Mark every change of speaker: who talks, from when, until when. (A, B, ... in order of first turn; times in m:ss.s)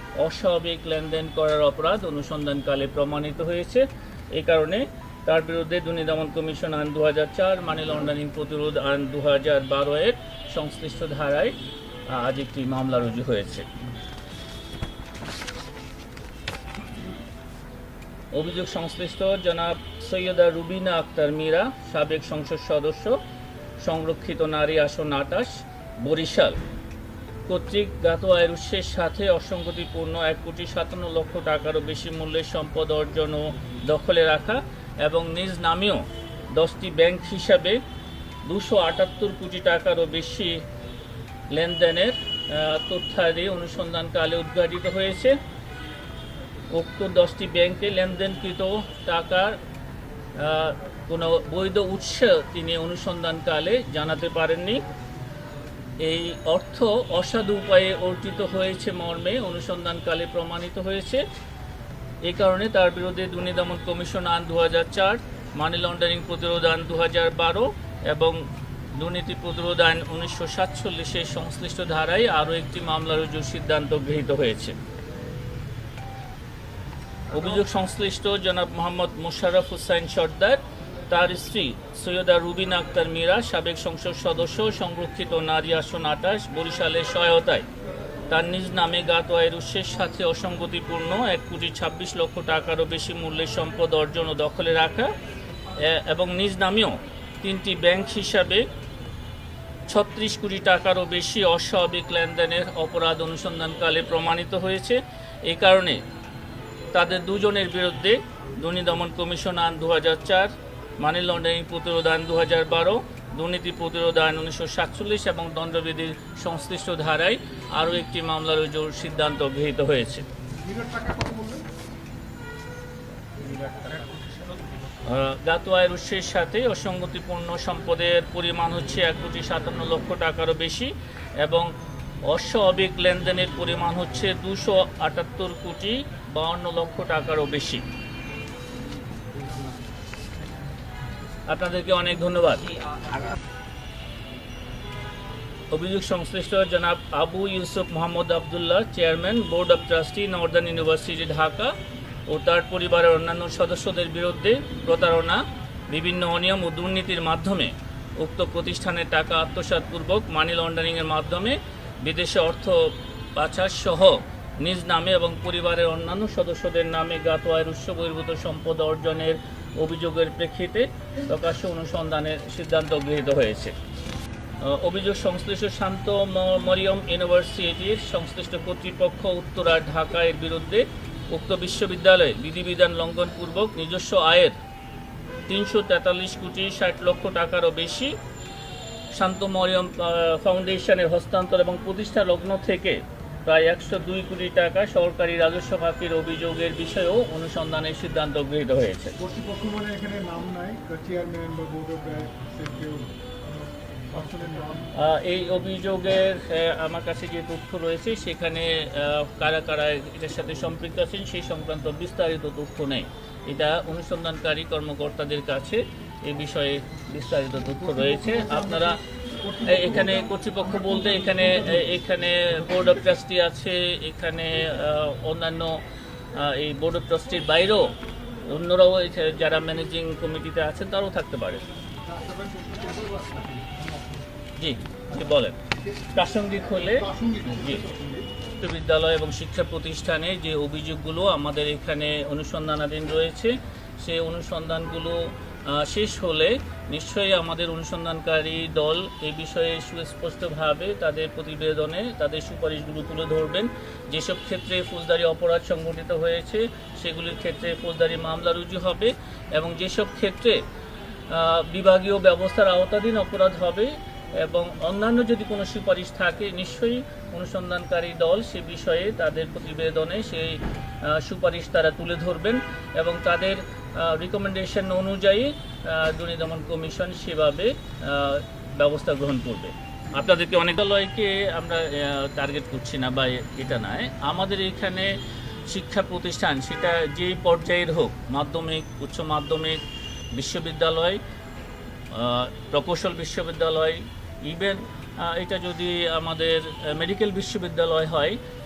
0:00.2-0:11.5 A
0:12.1-0:13.7 A
0:18.3-0:23.2 A
0:23.8-0:26.6 A
0:27.5-0:37.8 A
0:38.4-0:40.6 A
0:41.5-0:45.4 A
0:46.7-0:49.6 A
0:50.4-0:54.8 A
0:56.0-1:01.2 A
1:02.2-1:08.4 A
1:08.9-1:14.8 A
1:17.3-1:27.7 A
1:28.3-1:35.1 A
1:35.8-1:38.6 A
1:39.9-1:46.0 A
1:46.9-2:00.2 A
2:00.6-2:01.6 B
2:03.4-2:04.5 B
2:05.0-2:11.7 A
2:12.3-2:17.8 A
2:21.5-2:22.8 A
2:25.7-2:31.8 A
2:32.3-2:53.7 A
2:54.6-3:04.6 A
3:05.5-3:08.2 A
3:09.2-3:19.1 A
3:19.2-3:23.1 B
3:24.1-3:24.9 B
3:24.9-3:39.0 A
3:37.8-3:41.9 B
3:39.6-3:45.8 A
3:46.3-3:47.9 A
3:48.4-3:51.6 A
3:52.1-3:54.2 B
3:54.6-3:55.6 A
3:56.1-3:57.8 A
3:56.8-3:58.3 B
3:58.6-4:20.6 A
4:21.3-4:45.1 A
4:45.7-4:49.8 A
4:50.3-4:51.2 A
4:52.1-4:58.4 A